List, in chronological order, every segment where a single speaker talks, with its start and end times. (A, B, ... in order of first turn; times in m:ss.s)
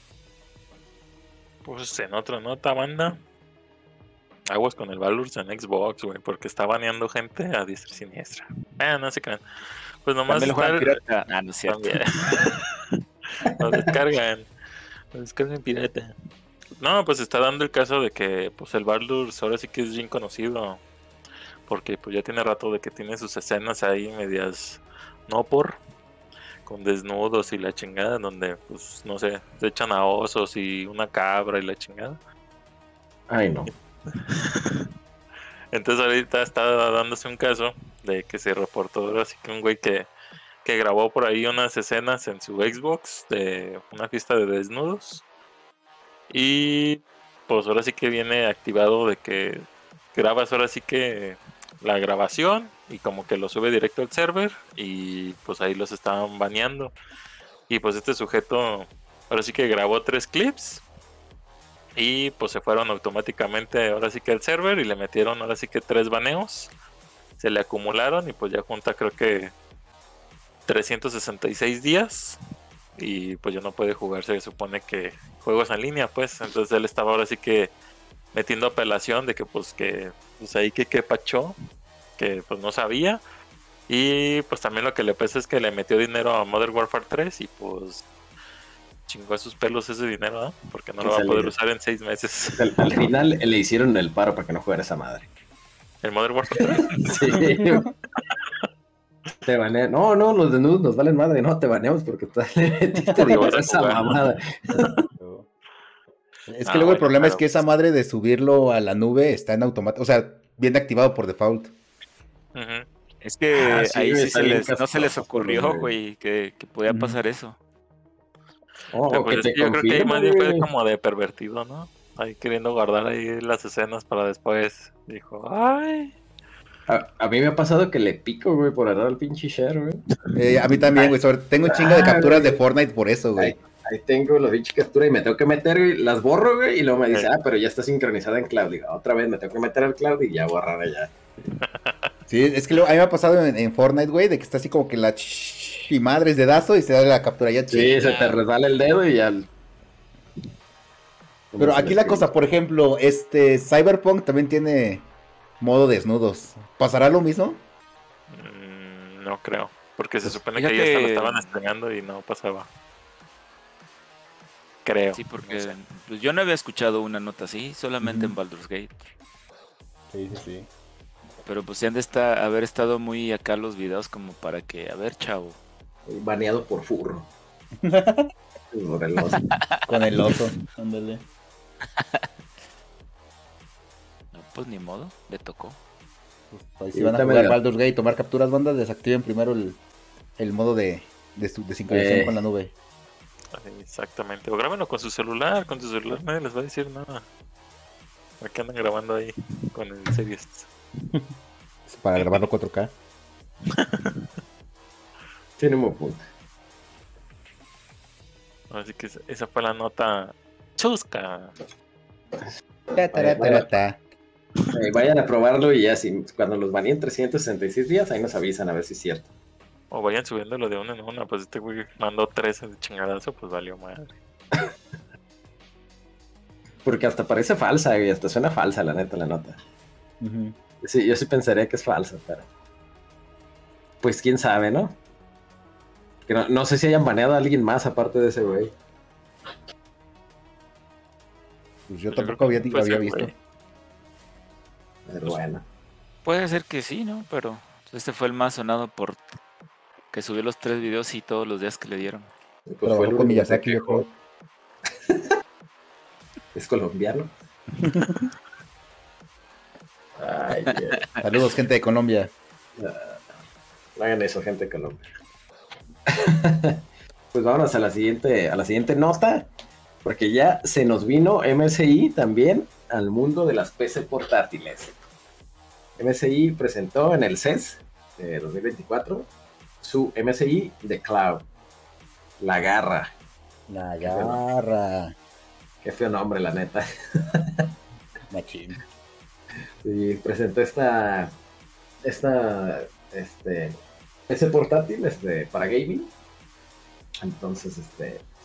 0:01.6-0:03.2 A
0:04.5-0:09.4 A
0:10.0-0:11.0 A
0:10.3-0:12.0 B
0:11.7-0:14.5 A
0:13.4-0:13.9 C
0:15.1-0:16.1 A
0:16.8-0:20.8 A
0:21.7-0:25.8 A
0:26.7-0:32.2 A
0:33.3-0:33.7 C
0:34.1-0:34.9 A
0:35.7-0:40.1 A
0:40.6-0:45.2 A
0:46.3-0:56.9 A
0:57.7-1:00.8 A
1:02.0-1:06.7 A
1:07.4-1:09.5 A
1:10.7-1:12.4 A
1:13.0-1:17.7 A
1:18.3-1:21.6 A
1:22.2-1:23.2 A
1:23.9-1:28.0 A
1:29.1-1:32.9 A
1:31.0-1:31.5 C
1:32.6-1:35.3 C
1:36.0-1:37.4 A
1:36.6-1:37.8 C
1:37.4-1:37.9 D
1:38.2-1:38.4 A
1:39.5-1:45.1 C
1:43.0-1:43.5 D
1:43.2-1:44.4 A
1:45.2-1:45.5 D
1:46.5-1:51.7 D
1:46.6-1:47.5 A
1:52.6-1:52.9 A
1:53.2-1:57.6 B
1:53.6-1:55.9 C
1:58.9-2:00.7 C
1:59.1-2:06.1 A
2:06.9-2:10.0 C
2:10.4-2:13.6 D
2:11.7-2:12.6 C
2:13.4-2:21.2 C
2:21.6-2:22.1 A
2:22.3-2:28.0 D
2:27.7-2:29.5 C
2:28.0-2:28.4 B
2:31.5-2:32.3 C
2:31.6-2:35.0 D
2:35.6-2:37.6 D
2:38.3-2:42.7 A
2:40.6-2:41.6 B
2:44.8-2:45.8 A
2:45.1-2:49.1 B
2:48.0-2:48.3 D
2:50.1-2:50.7 D
2:51.4-2:55.6 B
2:56.1-2:57.3 C
2:57.8-2:58.3 D
2:58.7-2:59.5 C
2:59.5-3:00.4 B
2:59.9-3:01.2 D
3:02.0-3:02.3 B
3:04.3-3:05.8 B
3:06.5-3:09.8 D
3:06.9-3:07.6 C
3:10.4-3:12.7 D
3:11.9-3:12.4 C
3:13.5-3:17.3 A
3:18.4-3:20.7 A
3:21.9-3:22.9 D
3:22.2-3:22.5 A
3:23.7-3:24.2 A
3:25.6-3:26.2 C
3:28.7-3:31.6 A
3:32.9-3:34.0 D
3:33.1-3:33.7 C
3:34.7-3:39.3 C
3:39.9-3:44.1 A
3:46.8-3:49.6 C
3:50.2-3:50.6 D
3:50.8-3:52.4 C
3:54.0-3:55.0 C
3:56.3-3:58.7 C
4:01.9-4:03.3 D
4:02.1-4:03.3 A
4:05.1-4:05.6 C
4:06.2-4:09.2 B
4:10.1-4:12.3 B
4:12.7-4:14.0 C
4:12.8-4:14.1 D
4:14.9-4:15.3 C
4:16.5-4:17.3 C
4:17.9-4:18.2 D
4:20.2-4:21.1 C
4:21.2-4:22.3 D
4:22.8-4:23.2 C
4:24.0-4:25.1 C
4:26.1-4:26.8 C
4:27.3-4:29.5 C
4:30.0-4:34.9 C
4:36.0-4:39.3 C
4:39.8-4:41.4 C
4:42.4-4:43.1 C
4:43.7-4:45.1 D
4:44.0-4:44.4 C
4:45.8-4:47.7 C
4:48.3-4:48.8 D
4:49.8-4:51.3 C
4:52.0-4:56.1 C
4:57.2-4:58.2 C